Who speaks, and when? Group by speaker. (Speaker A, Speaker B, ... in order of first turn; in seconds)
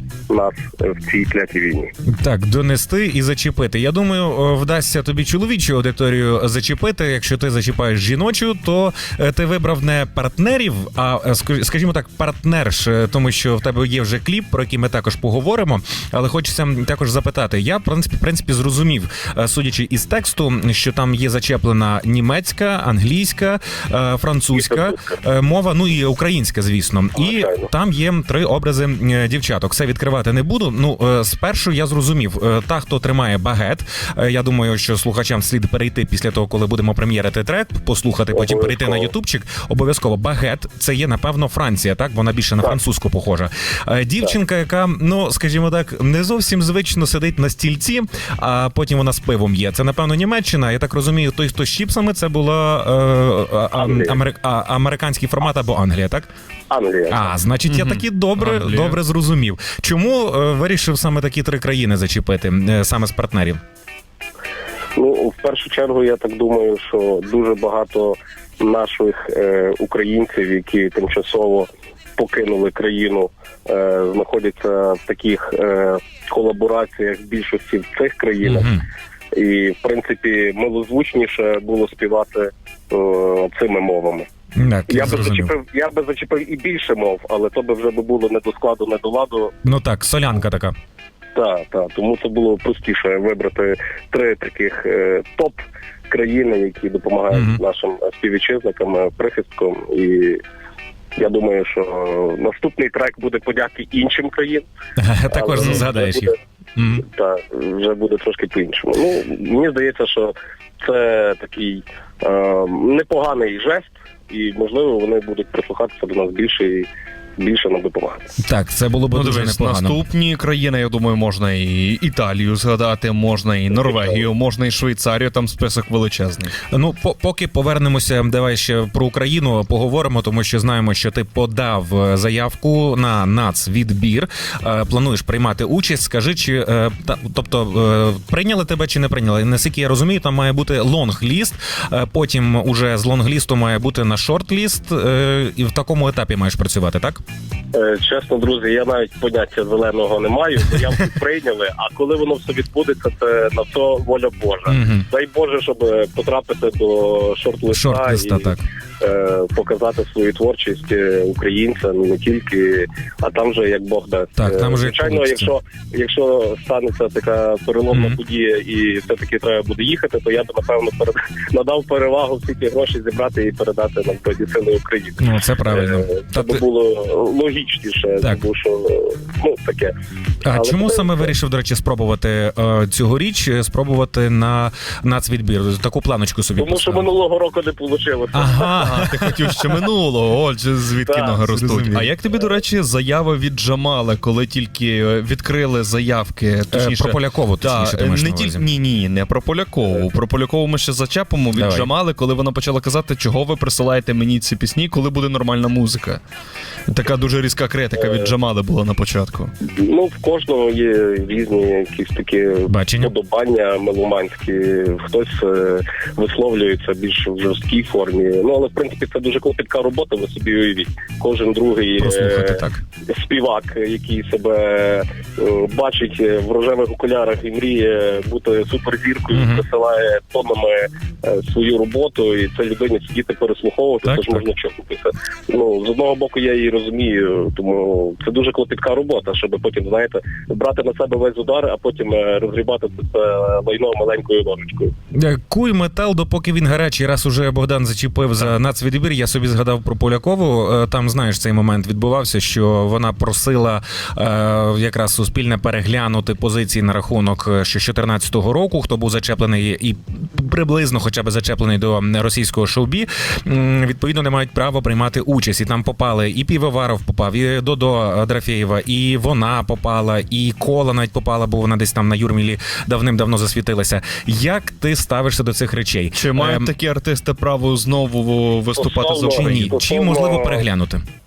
Speaker A: 0.3-1.9, 24.6-25.0, 27.2-27.7, 38.3-39.1, 53.7-54.2, 56.7-57.3, 65.0-78.7, 79.3-84.3, 84.9-89.5, 91.3-100.4, 101.2-104.6, 105.3-106.3, 107.0-118.3, 147.7-179.9, 180.5-181.3, 186.6-188.8, 191.0-191.4, 208.0-208.3, 209.6-244.9, 278.8-280.6
Speaker B: 2.0-56.3, 57.1-63.6, 78.4-78.8, 84.5-85.5, 89.6-90.7, 97.3-97.6, 105.0-107.0, 118.4-120.0, 126.7-147.2, 154.7-155.1, 157.7-158.7, 164.4-165.5, 167.9-168.2, 175.2-176.6, 180.4-187.1, 188.3-189.5, 191.5-192.1, 196.7-198.7, 201.5-201.9, 212.7-213.1, 222.0-222.8, 229.3-229.6, 234.1-234.4, 245.1-276.7, 279.4-281.0
Speaker C: 57.6-59.0, 119.1-126.5, 188.7-206.2, 206.9-209.5, 276.1-279.7